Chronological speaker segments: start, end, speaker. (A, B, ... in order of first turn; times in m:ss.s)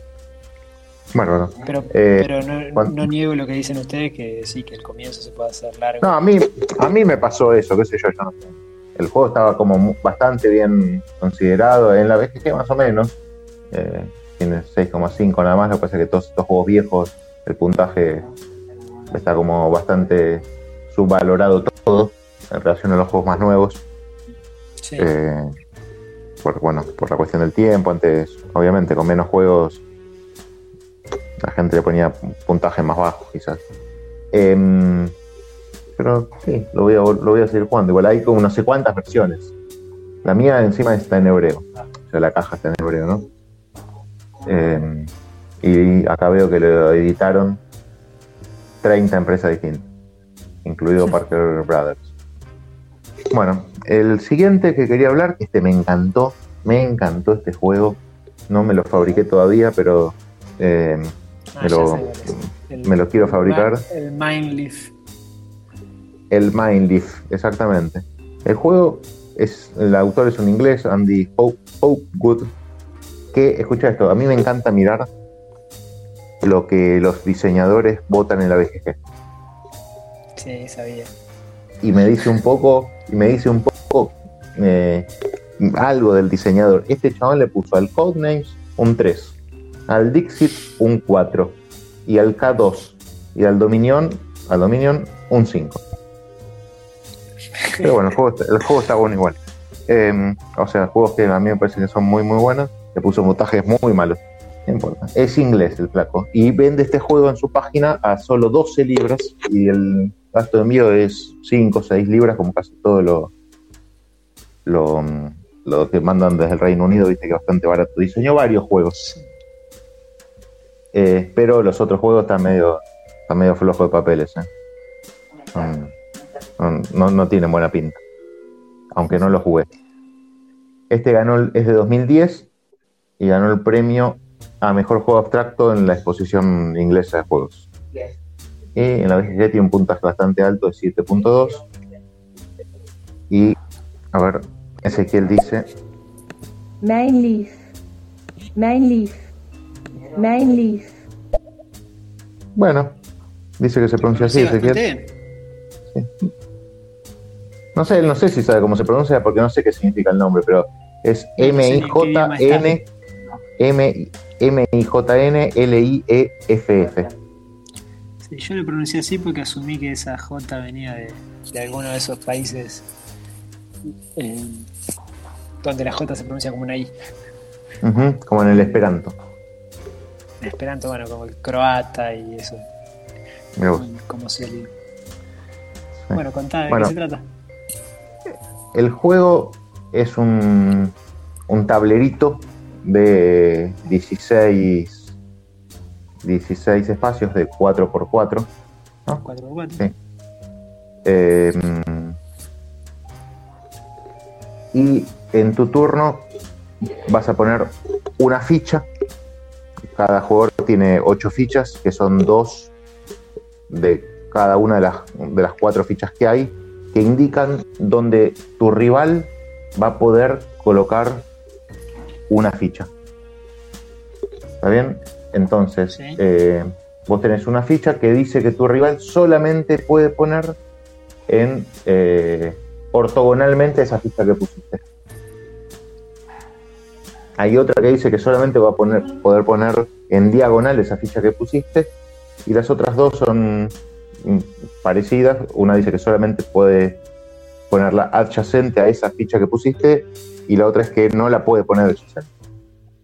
0:01.1-0:03.0 A
0:01.6-0:06.1 B
0:06.0-0:13.1 A
0:13.7-0:18.3 A
0:19.1-0:23.8 A
0:24.8-0:25.1 B
0:25.0-0:25.5 A
0:26.4-0:29.8 A
0:31.4-0:33.6 A
0:34.3-0:35.1 A
0:36.0-0:39.5 A
0:40.2-0:43.3 A
0:44.4-0:47.6 A
0:48.8-0:49.9 A
0:50.6-0:52.1 A
0:53.3-1:03.8 A
1:01.5-1:04.9 B
1:06.3-1:12.5 A
1:13.3-1:15.1 A
1:16.4-1:19.0 A
1:20.4-1:21.1 B
1:21.8-1:29.4 A
1:29.9-1:35.8 A
1:37.6-1:37.9 B
1:37.8-1:53.3 A
1:54.6-1:59.0 A
2:00.9-2:04.5 A
2:05.5-2:05.9 A
2:06.6-2:08.0 A
2:08.9-2:09.7 A
2:10.9-2:12.5 A
2:13.2-2:17.7 A
2:18.7-2:21.6 A
2:23.3-2:23.6 A
2:24.1-2:25.7 A
2:26.8-2:27.6 C
2:28.5-2:29.2 C
2:30.1-2:30.9 C
2:32.5-2:32.9 A
2:33.6-2:34.8 A
2:34.0-2:35.1 B
2:35.9-2:36.3 A
2:37.7-2:42.8 A
2:41.4-2:42.8 B
2:43.6-2:47.1 A
2:48.2-2:52.8 B
2:54.2-2:54.7 B
2:55.6-2:56.9 B
2:57.8-2:59.2 A
2:58.5-2:58.8 B
3:00.4-3:02.6 B
3:03.6-3:03.8 A
3:03.7-3:04.7 B
3:06.1-3:06.9 A
3:06.1-3:07.2 B
3:08.7-3:10.9 A
3:11.5-3:15.1 A
3:16.2-3:18.5 A
3:19.2-3:19.9 B
3:21.0-3:22.2 A
3:24.7-3:26.3 A
3:26.8-3:28.9 A
3:29.9-3:32.7 A
3:33.7-3:41.2 A
3:42.3-3:42.9 A
3:44.6-3:50.6 A
3:45.9-3:46.2 B
3:51.3-3:54.8 A
3:57.4-4:01.9 A
4:02.4-4:07.0 A
4:07.7-4:12.3 A